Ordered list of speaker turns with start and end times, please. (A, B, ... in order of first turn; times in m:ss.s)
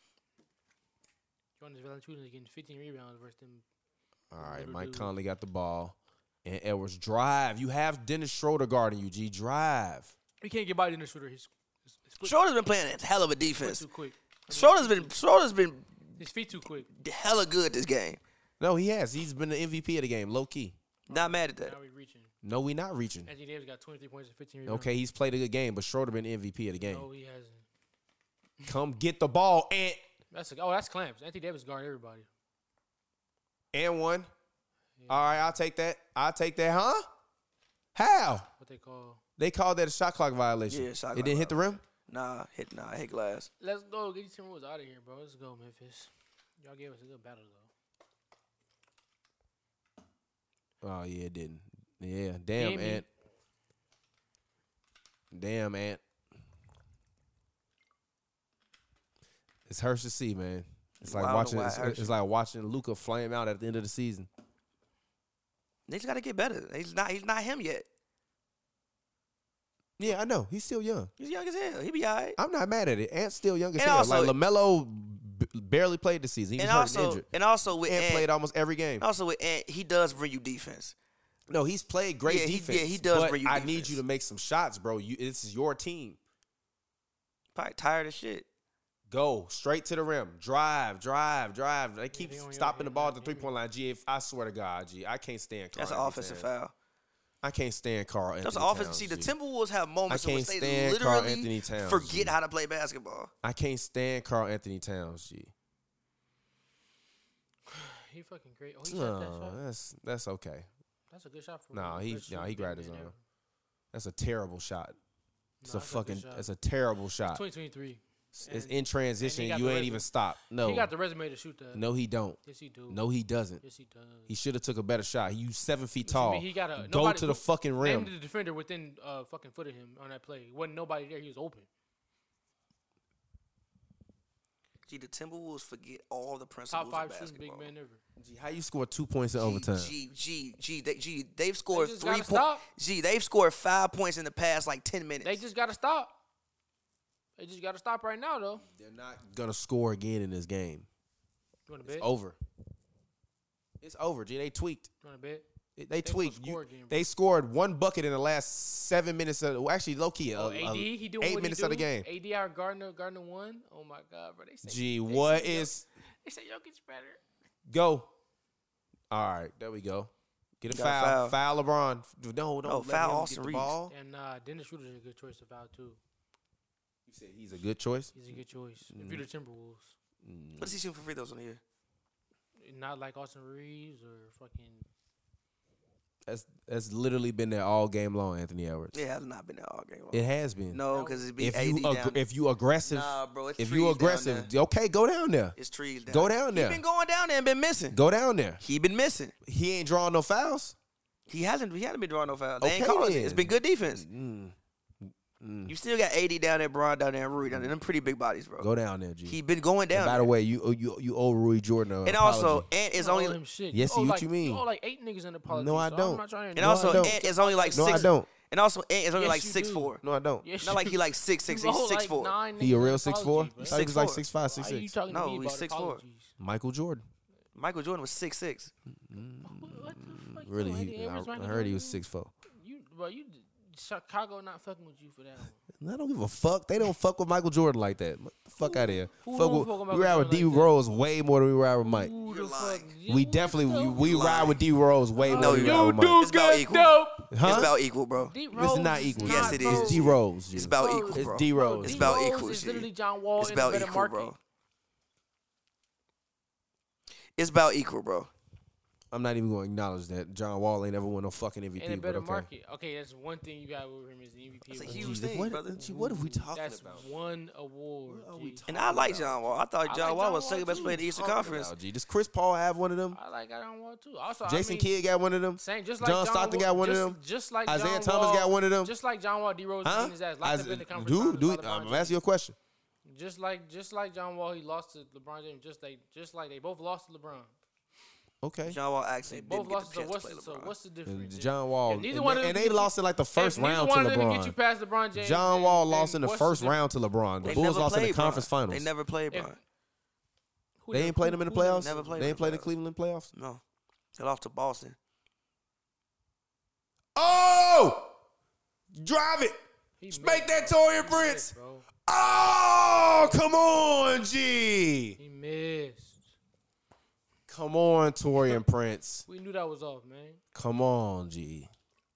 0:01.6-0:03.6 A
0:04.3-0:10.1 B
0:04.4-0:05.1 A
0:10.4-0:12.3 A
0:12.2-0:13.8 C
0:13.6-0:15.1 A
0:14.5-0:16.1 C
0:16.2-0:16.9 A
0:16.9-0:18.2 C
0:18.6-0:20.8 B
0:21.1-0:21.7 C
0:21.1-0:22.3 A
0:22.4-0:23.3 B
0:23.2-0:24.9 A
0:24.7-0:27.1 B
0:26.8-0:27.6 A
0:28.6-0:30.0 B
0:30.3-0:32.3 A
0:33.7-0:34.3 B
0:35.0-0:35.5 A
0:35.1-0:37.0 B
0:37.9-0:38.5 B
0:38.6-0:39.2 A
0:39.4-0:41.8 B
0:40.7-0:43.5 C
0:43.6-0:46.1 A
0:46.6-0:47.7 A
0:50.8-0:53.0 B
0:52.6-0:53.0 A
0:55.3-0:56.0 B
0:59.7-1:04.3 B
1:01.0-1:02.1 C
1:05.9-1:07.9 C
1:10.0-1:11.1 B
1:11.2-1:12.4 C
1:12.4-1:17.2 B
1:13.8-1:14.3 C
1:16.6-1:18.3 C
1:17.9-1:19.0 B
1:19.0-1:20.9 C
1:21.5-1:26.2 B
1:22.2-1:24.0 C
1:27.5-1:28.4 C
1:29.1-1:36.5 B
1:32.1-1:33.5 A
1:35.7-1:36.7 C
1:37.4-1:39.3 B
1:38.4-1:43.3 C
1:40.1-1:42.3 B
1:43.4-1:45.5 B
1:47.7-1:49.6 A
1:48.8-1:50.7 B
1:51.1-1:53.2 A
1:51.7-1:53.1 B
1:53.9-1:55.0 B
1:55.6-1:56.5 A
1:55.7-1:57.4 B
1:57.2-2:00.1 A
1:58.3-2:00.9 B
2:00.6-2:01.8 A
2:01.7-2:03.6 B
2:02.4-2:03.0 A
2:03.6-2:04.3 A
2:04.3-2:08.1 B
2:06.0-2:11.7 A
2:14.9-2:17.7 C
2:16.7-2:18.0 A
2:18.2-2:19.9 B
2:19.3-2:25.4 C
2:21.7-2:22.6 A
2:25.2-2:26.2 A
2:27.4-2:28.6 A
2:28.6-2:30.8 B
2:31.7-2:32.1 A
2:31.8-2:32.4 B
2:33.8-2:34.9 B
2:35.0-2:35.4 A
2:35.8-2:42.1 B
2:36.0-2:37.0 A
2:40.3-2:47.2 A
2:44.6-2:45.8 B
2:47.7-2:48.1 B
2:49.1-2:53.9 B
2:50.7-2:51.4 C
2:52.6-2:53.7 C
2:53.9-2:56.0 A
2:57.1-2:58.1 B
2:58.1-2:59.9 A
2:58.9-2:59.2 B
3:00.2-3:00.8 B
3:00.6-3:01.6 C
3:02.6-3:04.8 A
3:06.2-3:08.9 B
3:08.9-3:12.2 C
3:10.1-3:10.8 B
3:10.9-3:11.2 A
3:11.4-3:15.5 B
3:12.8-3:14.5 C
3:15.6-3:18.0 C
3:16.1-3:16.8 B
3:17.9-3:18.6 B
3:18.6-3:19.3 C
3:19.4-3:20.7 B
3:21.3-3:24.0 C
3:22.6-3:25.7 B
3:25.7-3:28.7 C
3:27.5-3:27.7 B
3:28.6-3:29.4 B
3:29.3-3:30.3 C
3:29.9-3:32.6 B
3:32.0-3:33.4 C
3:33.0-3:38.1 A
3:33.7-3:34.6 B
3:35.5-3:37.1 B
3:36.5-3:40.0 C
3:37.7-3:38.3 B
3:39.1-3:43.8 A
3:40.0-3:40.4 B
3:40.6-3:42.3 C
3:42.6-3:44.9 B
3:43.7-3:44.2 C
3:44.4-3:46.3 A
3:45.1-3:46.0 C
3:46.4-3:47.0 B
3:47.5-3:48.7 C
3:49.0-3:52.3 B
3:49.4-3:52.0 A
3:52.6-3:55.6 A
3:55.8-4:02.1 B
3:58.6-4:00.8 A
4:01.8-4:04.4 A
4:02.2-4:02.9 C
4:03.1-4:06.2 B
4:04.0-4:04.6 C
4:05.2-4:14.4 A
4:05.3-4:08.3 C
4:07.3-4:07.7 B
4:08.5-4:12.2 B
4:09.2-4:12.9 C
4:13.4-4:14.4 C
4:17.4-4:18.3 C
4:19.1-4:22.5 B
4:21.8-4:25.2 A
4:24.7-4:25.8 C
4:24.8-4:27.1 B
4:25.7-4:28.7 A
4:28.1-4:29.4 B
4:28.7-4:31.7 C
4:29.8-4:31.1 A
4:31.1-4:33.2 B
4:33.1-4:34.9 A
4:34.4-4:38.9 B
4:35.6-4:42.1 A
4:39.8-4:42.6 B
4:43.0-4:47.5 A
4:48.4-4:48.8 B
4:48.6-4:50.7 C
4:49.3-4:56.8 A
4:51.1-4:54.6 B
4:55.2-4:58.9 B
4:57.4-4:59.6 C
4:59.3-4:59.6 A
5:00.8-5:02.4 A
5:00.9-5:03.3 B
5:01.8-5:02.7 C
5:03.3-5:03.6 C
5:04.2-5:05.0 C
5:07.2-5:08.1 B
5:08.9-5:09.5 B
5:10.0-5:11.9 A
5:10.1-5:15.2 B
5:13.0-5:13.4 A
5:15.2-5:16.2 A
5:17.5-5:19.2 B
5:19.3-5:20.4 A
5:20.5-5:21.7 B